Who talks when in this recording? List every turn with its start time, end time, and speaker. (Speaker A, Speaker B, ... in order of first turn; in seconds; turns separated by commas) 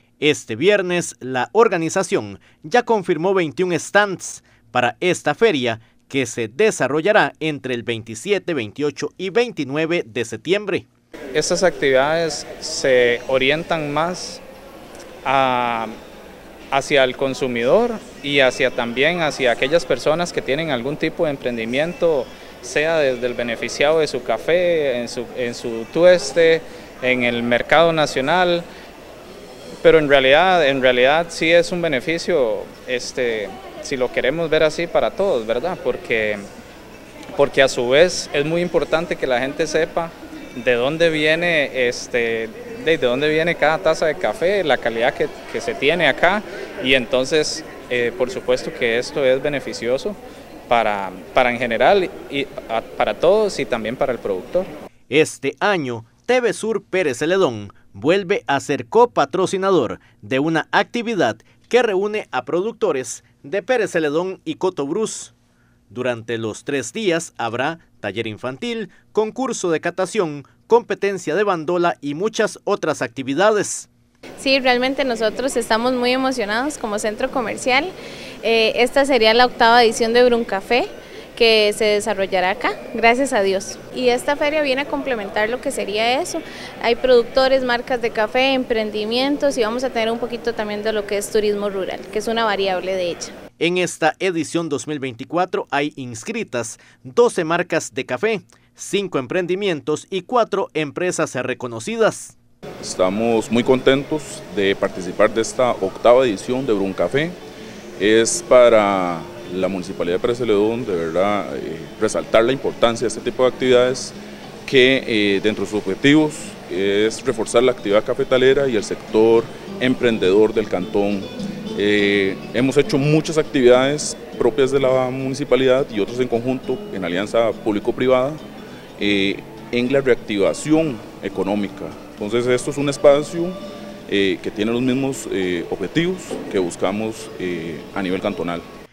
Speaker A: 0.2-10.9, Speaker B: 11.3-14.4, Speaker B: 15.2-16.0, Speaker B: 16.7-28.7, Speaker B: 29.8-36.5, Speaker B: 37.3-54.7, Speaker A: 55.1-65.3, Speaker A: 65.9-73.9, Speaker C: 74.4-93.3, Speaker A: 93.6-102.4, Speaker D: 102.8-107.4, Speaker D: 108.0-128.4, Speaker D: 129.0-138.7